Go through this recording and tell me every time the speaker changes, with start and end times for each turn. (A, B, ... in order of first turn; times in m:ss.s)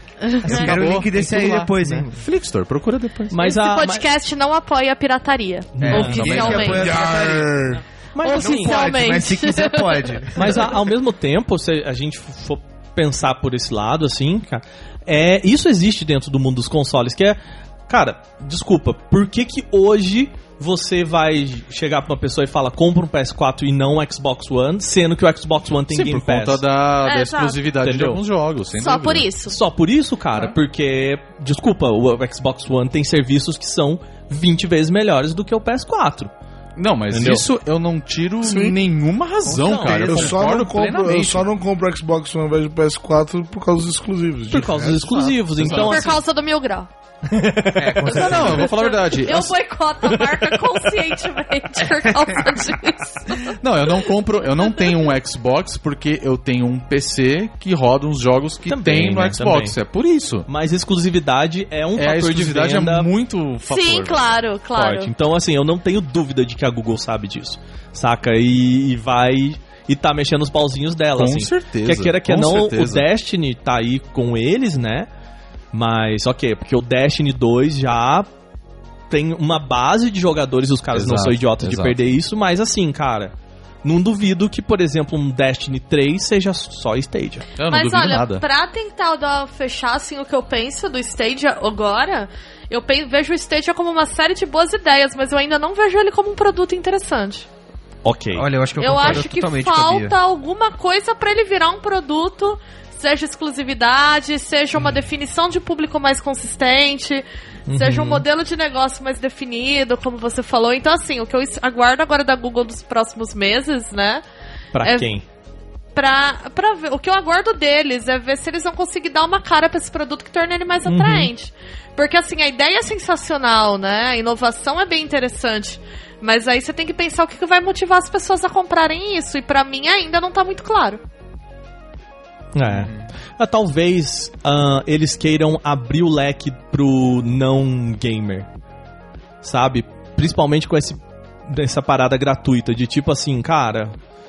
0:00.2-0:00.7 A
0:00.4-0:02.2 B
0:00.4-0:03.4 C
0:03.3-0:04.1 D
0:03.4-0:06.9 A
0:05.8-0:06.7 D
0:05.8-0:10.7 B
0:05.8-0:06.9 C
0:06.8-0:07.8 E
0:08.1-0:08.9 D
0:08.2-0:10.3 A
0:10.3-0:17.4 D
0:17.9-0:26.6 D
0:25.9-0:29.3 C
0:27.0-0:27.6 A
0:27.8-0:28.2 D
0:28.7-0:29.6 A
0:29.5-0:36.3 D
0:36.8-0:41.5 C
0:37.1-0:37.4 D
0:38.4-0:38.8 E
0:39.4-0:40.8 D
0:39.8-0:45.2 E
0:44.5-0:46.2 D
0:45.6-0:46.1 C
0:45.6-0:46.9 A
0:47.3-0:48.6 D
0:47.8-0:48.7 B
0:48.0-0:49.6 C
0:48.1-0:53.6 A
0:50.1-0:50.8 D
0:53.6-1:00.5 C
0:54.6-0:55.1 A
0:58.7-0:59.8 D
1:00.5-1:03.1 D
1:02.0-1:04.4 C
1:03.7-1:05.1 A
1:04.8-1:15.1 D
1:11.2-1:13.1 C
1:15.7-1:18.3 D
1:19.1-1:27.5 D
1:20.9-1:22.0 C
1:27.6-1:28.4 C
1:27.6-1:37.5 A
1:38.0-1:38.5 D
1:38.3-1:40.1 B
1:38.8-1:54.2 A
1:47.7-1:48.2 D
1:54.7-1:55.2 D
1:54.8-1:55.1 A
1:55.9-2:11.0 A
2:00.8-2:01.3 D
2:12.5-2:18.5 D
2:19.4-2:23.9 D